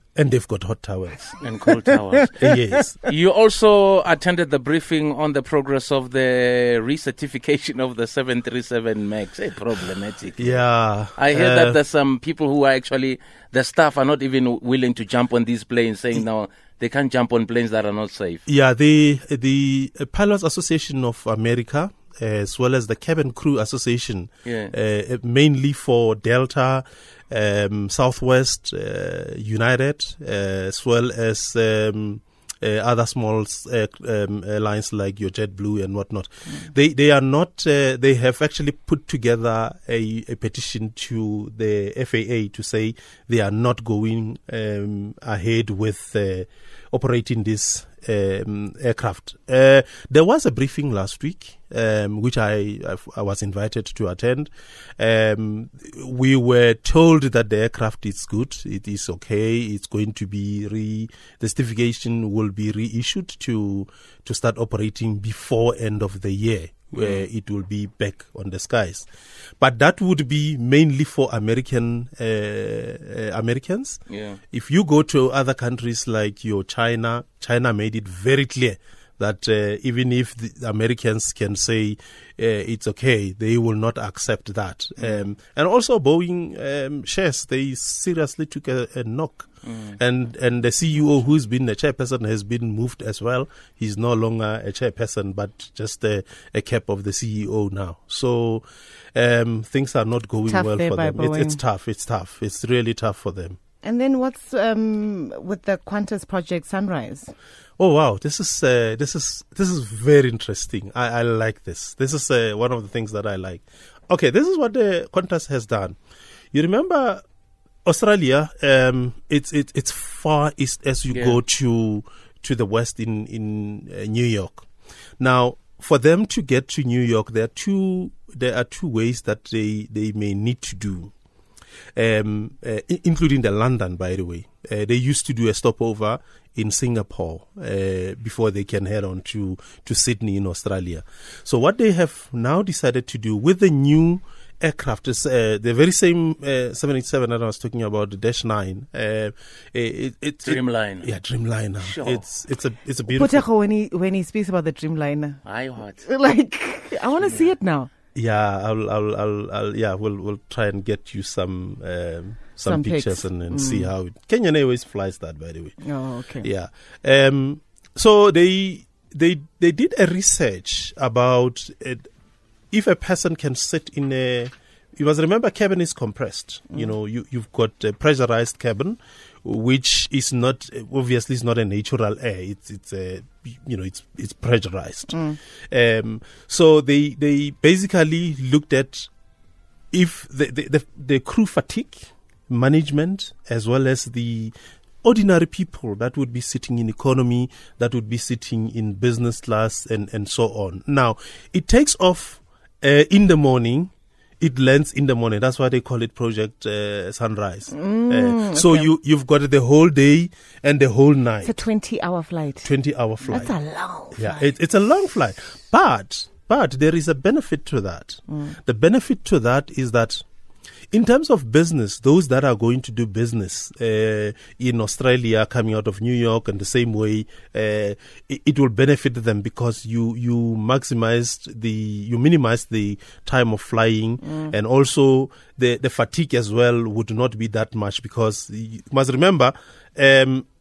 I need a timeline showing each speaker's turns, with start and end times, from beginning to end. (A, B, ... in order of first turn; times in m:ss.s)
0:00.2-0:01.4 A
0:01.4-0:02.4 B
0:01.9-0:02.5 C
0:02.4-0:03.0 A
0:03.0-0:10.6 B
0:10.4-0:11.8 A
0:11.2-0:18.4 B
0:18.4-1:09.1 A
0:24.4-0:24.7 B
1:06.9-1:07.2 B
1:09.6-1:43.6 A
1:14.1-1:14.4 B
1:25.0-1:25.2 B
1:29.6-1:30.0 B
1:40.4-1:41.6 C
1:43.8-1:47.3 C
1:47.8-1:56.0 A
1:56.5-1:57.2 A
1:57.8-2:04.7 A
2:01.1-2:01.4 B
2:05.2-2:11.1 A
2:12.0-2:33.4 A
2:30.4-2:31.1 B
2:31.8-2:32.2 B
2:33.0-2:35.4 C
2:35.4-2:36.0 B
2:36.0-2:37.9 C
2:38.1-2:45.8 A
2:42.6-2:43.9 C
2:45.8-2:46.5 C
2:46.4-2:52.1 A
2:52.7-3:09.1 A
3:05.1-3:05.4 C
3:09.9-3:31.6 A
3:27.7-3:28.9 C
3:31.4-3:32.7 C
3:32.6-3:33.6 A
3:33.3-3:34.5 C
3:34.1-3:40.2 A
3:40.9-4:00.4 A